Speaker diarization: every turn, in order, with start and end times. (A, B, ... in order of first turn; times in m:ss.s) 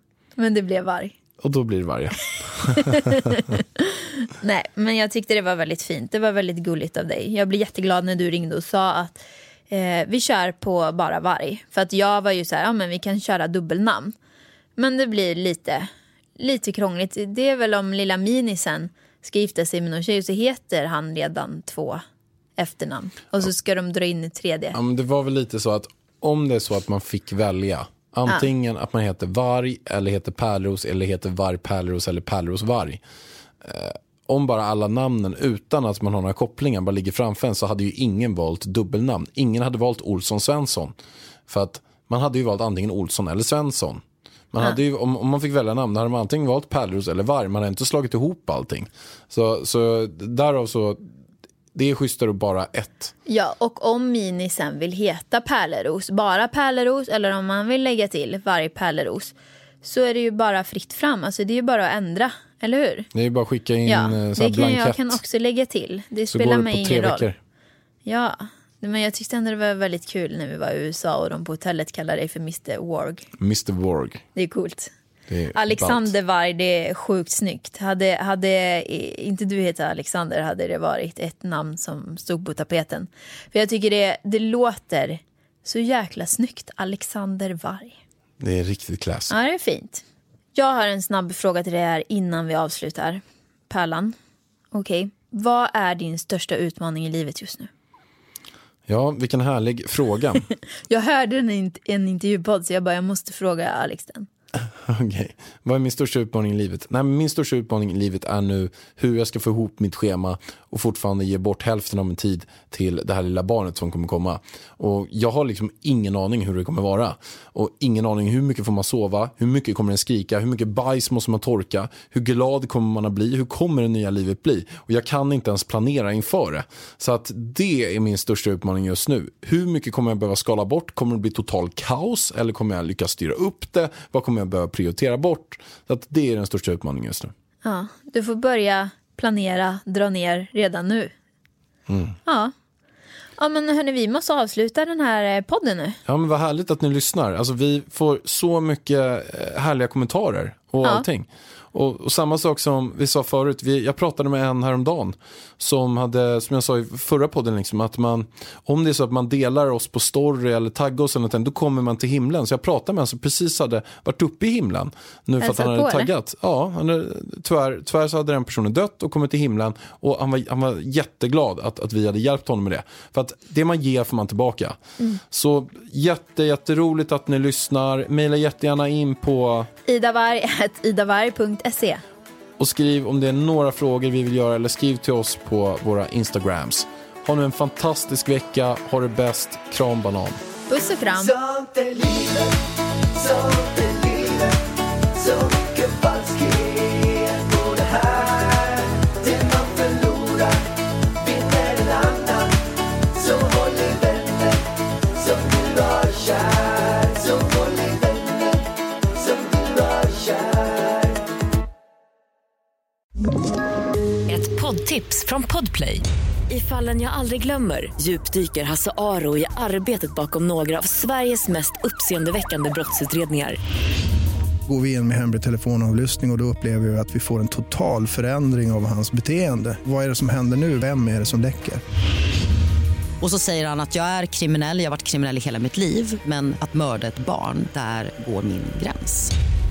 0:00.4-0:01.2 A
0:01.4-0:03.4 B
0:02.6-0:14.1 A
0:14.8-0:22.0 A
0:22.6-0:24.8 A
0:24.7-0:33.0 B
0:33.6-0:40.9 B
0:41.5-0:51.0 B
0:51.7-0:53.1 B
0:53.3-1:03.1 A
1:03.1-1:05.2 B
1:03.9-1:07.3 A
1:06.3-1:07.4 B
1:08.0-1:13.3 A
1:13.4-1:14.2 B
1:14.3-1:14.9 A
1:15.3-1:16.1 B
1:15.5-1:28.0 A
1:28.4-1:29.3 B
1:29.3-1:30.0 A
1:30.5-1:34.1 A
1:34.7-1:37.7 A
1:38.9-1:40.4 B
1:40.9-1:44.3 A
1:44.8-2:17.3 B
2:17.6-2:21.1 A
2:21.9-2:22.1 B
2:22.2-2:22.5 A
2:23.4-2:26.0 A
2:26.0-2:54.8 B
2:45.4-2:46.1 A
2:55.3-2:59.7 B
2:59.9-3:02.0 A
3:02.6-3:10.4 B
3:10.7-3:11.3 A
3:11.2-3:12.6 C
3:13.1-3:22.6 C
3:23.1-3:31.2 C
3:34.3-3:43.6 D
3:44.7-3:51.8 E
3:53.2-3:59.3 F